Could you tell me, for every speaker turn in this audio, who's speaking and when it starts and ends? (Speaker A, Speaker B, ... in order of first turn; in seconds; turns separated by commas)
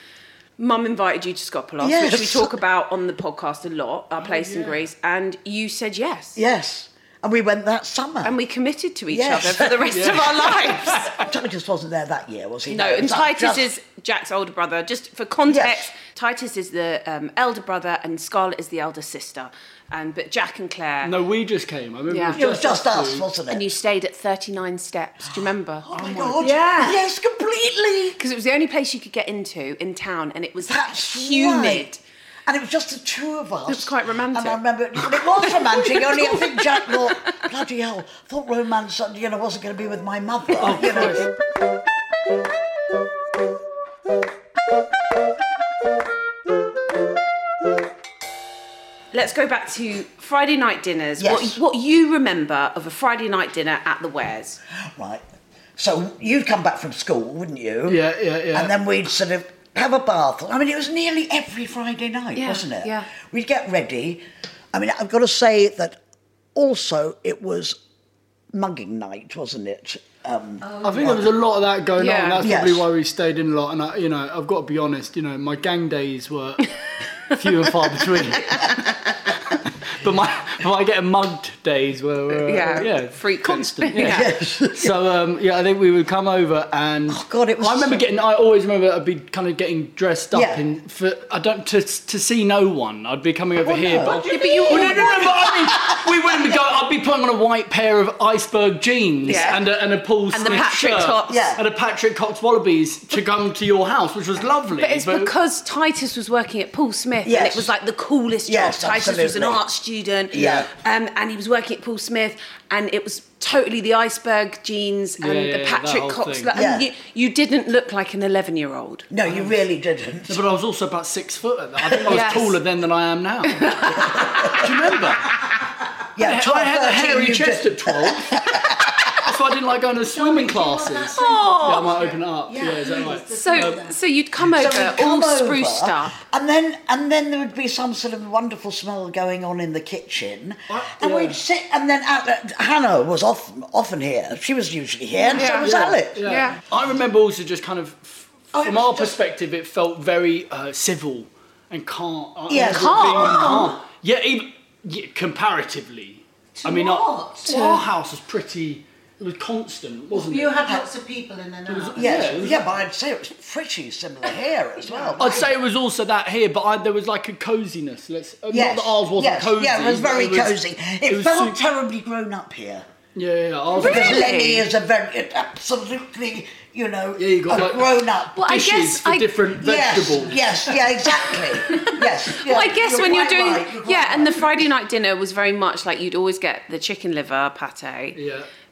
Speaker A: 0.6-6.4, Speaker B: 1.8-2.6, Speaker C: 4.2-4.8, Speaker B: 6.4-8.4, Speaker A: 8.2-11.1, Speaker B: 9.1-13.7, Speaker C: 9.9-11.3, Speaker A: 12.7-21.2, Speaker B: 15.5-15.9, Speaker C: 21.0-23.3, Speaker A: 22.1-22.4, Speaker B: 22.3-23.8, Speaker A: 23.5-27.0, Speaker B: 25.9-28.2, Speaker D: 26.4-27.0, Speaker A: 28.2-32.0, Speaker B: 30.6-31.9, Speaker B: 32.5-41.3, Speaker A: 33.7-37.3, Speaker C: 40.6-41.3, Speaker A: 49.1-54.6, Speaker B: 51.2-51.6, Speaker B: 54.8-55.2, Speaker B: 55.8-66.0, Speaker C: 57.9-58.7, Speaker A: 62.4-63.1, Speaker B: 66.5-67.8, Speaker B: 68.5-71.3, Speaker C: 70.8-76.7, Speaker A: 72.0-72.4, Speaker B: 72.4-72.9, Speaker C: 77.3-105.3, Speaker A: 82.4-84.3, Speaker B: 84.0-85.0, Speaker B: 87.1-88.0, Speaker B: 90.3-90.6, Speaker B: 93.6-96.6, Speaker A: 94.0-95.2, Speaker A: 99.2-99.7, Speaker B: 99.2-99.6, Speaker A: 100.3-101.4, Speaker B: 101.3-101.6, Speaker A: 104.8-119.1, Speaker B: 107.2-107.7, Speaker B: 108.5-109.6, Speaker B: 110.3-110.7, Speaker C: 110.3-110.7, Speaker C: 115.2-116.5, Speaker B: 116.5-116.9, Speaker B: 119.1-120.5, Speaker C: 120.3-125.5, Speaker B: 121.8-122.3, Speaker A: 122.0-122.6, Speaker A: 123.5-124.7, Speaker B: 123.9-124.9, Speaker B: 126.2-129.2, Speaker C: 126.2-133.8, Speaker D: 130.0-134.0, Speaker A: 131.2-131.9, Speaker A: 133.3-136.2, Speaker B: 134.4-146.4, Speaker C: 140.7-141.4, Speaker A: 145.3-146.6, Speaker C: 145.5-160.6, Speaker B: 148.5-149.2, Speaker B: 152.5-153.8, Speaker A: 152.6-153.7, Speaker D: 156.6-157.8, Speaker D: 160.1-162.6, Speaker C: 161.7-162.6, Speaker B: 162.0-165.5, Speaker C: 165.2-170.6, Speaker B: 168.5-172.8, Speaker C: 171.1-171.6, Speaker C: 173.2-174.3, Speaker B: 173.8-178.5, Speaker A: 173.8-174.7, Speaker C: 177.2-180.5, Speaker A: 178.3-179.4, Speaker B: 179.6-184.7, Speaker A: 181.7-188.2, Speaker C: 188.2-188.5